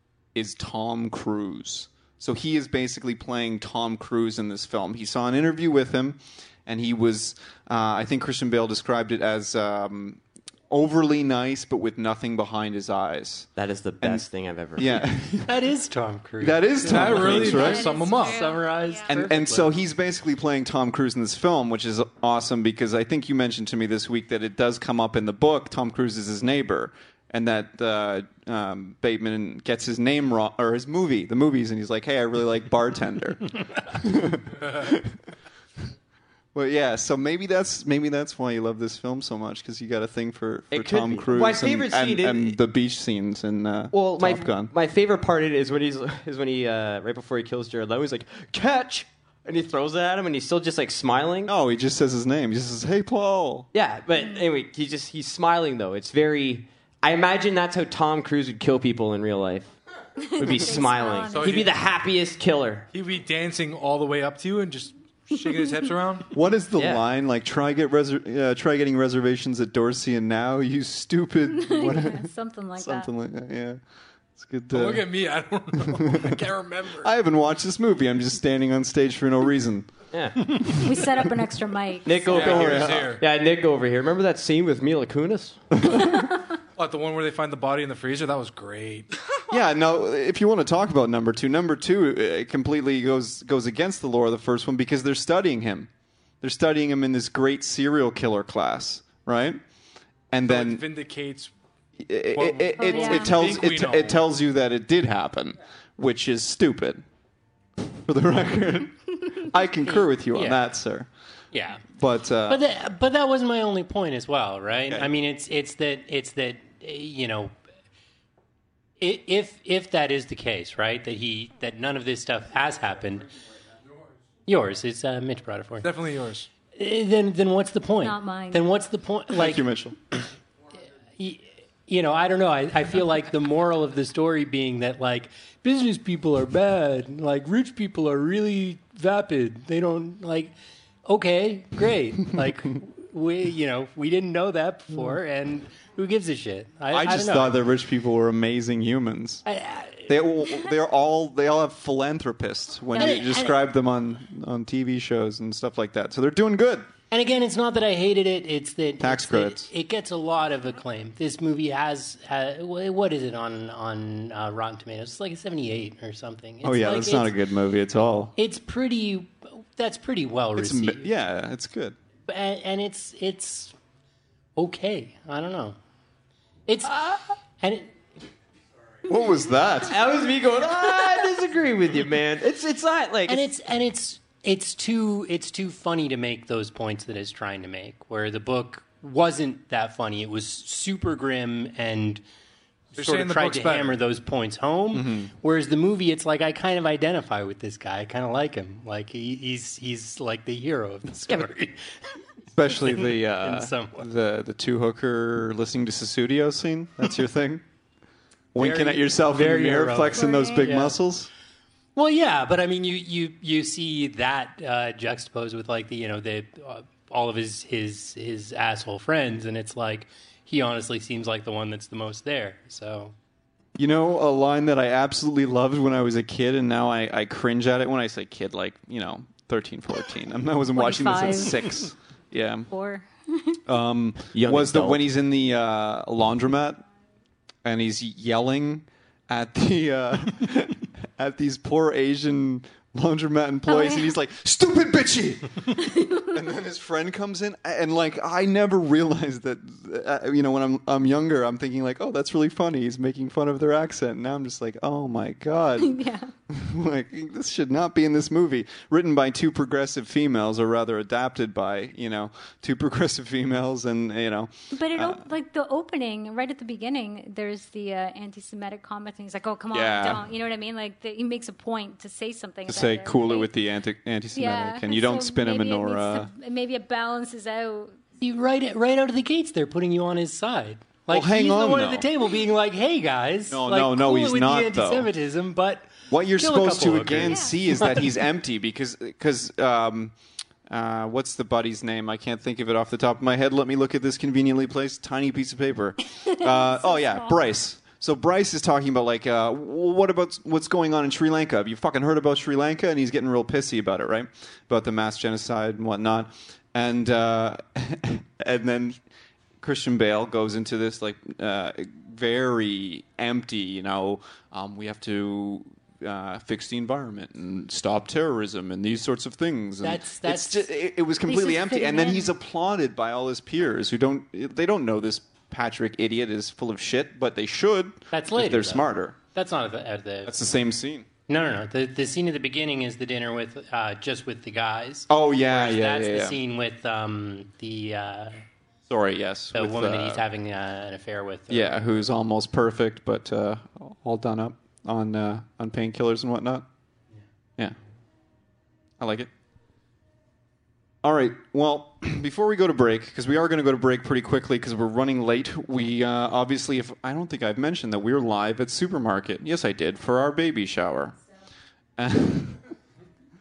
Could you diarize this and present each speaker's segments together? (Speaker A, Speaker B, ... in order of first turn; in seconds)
Speaker A: 0.3-13.5, 14.8-15.6, 16.4-17.9, 19.1-35.2, 36.5-44.7, 51.5-53.7, 66.3-73.8, 74.3-75.0, 75.8-76.4, 77.0-79.9, 82.5-83.0, 89.5-95.9, 96.4-99.6, 100.3-100.8, 102.0-107.0, 107.8-111.1, 112.0-112.6, 129.3-130.0, 146.9-149.4, 150.1-156.9, 159.0-159.7, 166.6-168.3, 170.6-171.9, 179.1-180.0, 194.9-195.3, 202.5-207.6, 208.5-211.3, 223.8-232.7, 233.7-236.8, 237.6-265.2, 269.7-270.2, 272.7-276.3, 281.1-282.1, 283.5-285.1, 286.1-290.1, 290.7-309.0, 309.6-329.1, 330.2-331.1, 335.1-336.4, 338.9-340.2, 341.5-346.7, 349.0-349.3, 351.0-361.2, 362.0-362.6
Speaker B: 13.6-15.0, 40.7-42.6, 43.9-51.5, 53.7-59.7, 60.4-62.9, 66.8-67.0, 80.1-80.6, 82.0-85.6, 179.9-183.4, 234.3-235.0
Speaker C: 15.5-19.7, 110.2-110.6, 111.5-111.8, 112.5-117.5, 119.0-123.3, 124.5-125.9, 126.8-129.6, 131.2-140.5, 141.1-147.6, 149.4-150.1, 153.0-153.6, 157.1-167.3, 168.3-171.1, 172.3-173.7, 174.6-175.8, 176.7-177.9, 183.3-192.2, 192.9-201.9, 202.7-204.1, 208.6-210.9, 211.9-223.1, 278.2-288.1, 319.8-320.7, 321.3-322.1, 328.1-330.3, 331.3-338.3, 339.5-341.8
Speaker D: 16.9-18.5, 61.3-61.7, 62.9-66.3, 74.7-77.1, 82.3-83.2, 86.8-89.1, 100.4-101.5, 102.3-104.2, 125.8-126.5, 193.0-194.0
Speaker E: 17.4-19.1, 60.2-61.6, 71.5-73.1, 80.7-82.8, 102.8-103.4, 128.0-128.7, 210.2-210.7, 230.7-231.9, 232.7-233.6, 243.7-244.1, 245.8-246.3, 255.8-256.3, 264.7-273.5, 274.3-277.9, 296.4-297.4, 321.7-322.0